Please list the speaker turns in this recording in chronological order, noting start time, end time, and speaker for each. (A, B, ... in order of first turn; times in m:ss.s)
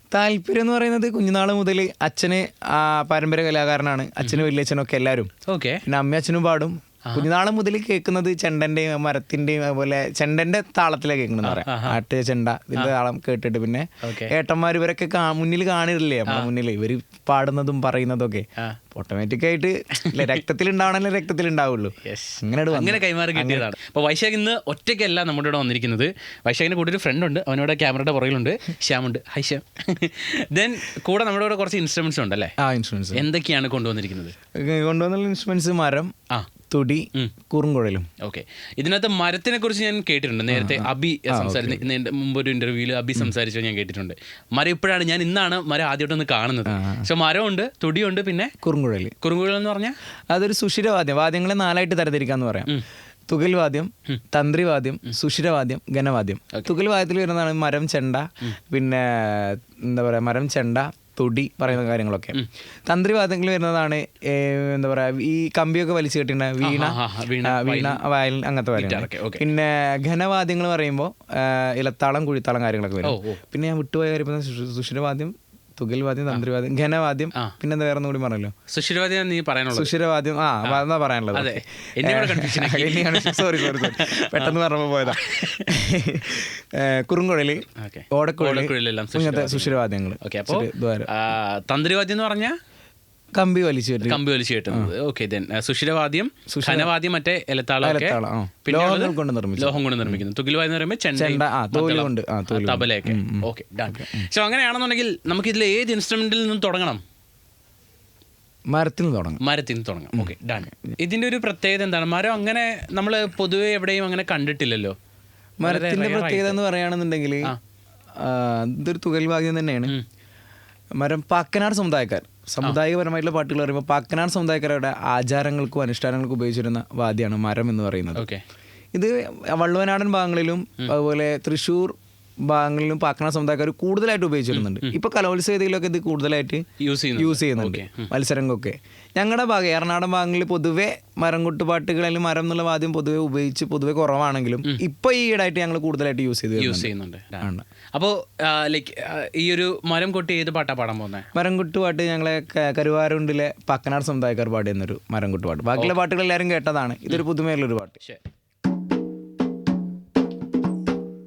0:00.1-0:05.3 A
0:04.2-0:04.5 B
0:05.5-0:05.8 B
0:05.9-0:23.7 A
0:11.4-0:12.0 B
0:14.0-0:14.3 B
0:20.1-0:20.4 B
0:22.0-0:32.5 B
0:32.6-0:33.2 A
0:33.1-0:34.4 B
0:34.6-0:36.1 A
0:36.7-0:38.1 A
0:38.2-0:48.5 B
0:40.5-0:41.9 A
0:46.7-0:47.1 A
0:48.6-0:49.2 A
0:49.2-0:50.0 B
0:50.3-0:52.8 A
0:53.3-1:18.5 A
1:06.6-1:08.0 B
1:08.8-1:09.5 B
1:13.0-1:13.4 B
1:18.7-1:19.9 B
1:19.7-1:31.1 A
1:21.3-1:25.7 B
1:27.8-1:32.6 B
1:33.4-1:34.9 A
1:34.0-1:47.0 B
1:36.5-1:36.9 A
1:37.8-1:40.2 A
1:41.2-1:44.3 A
1:48.7-1:49.4 A
1:49.4-1:55.0 B
1:50.2-1:51.0 A
1:55.6-1:57.5 A
1:55.6-1:56.6 B
1:58.2-1:59.9 A
2:01.0-2:08.3 A
2:08.2-2:08.4 B
2:08.9-2:16.6 A
2:14.5-2:15.0 B
2:16.8-2:18.1 B
2:17.2-2:27.6 A
2:26.6-2:31.3 B
2:31.4-2:38.0 A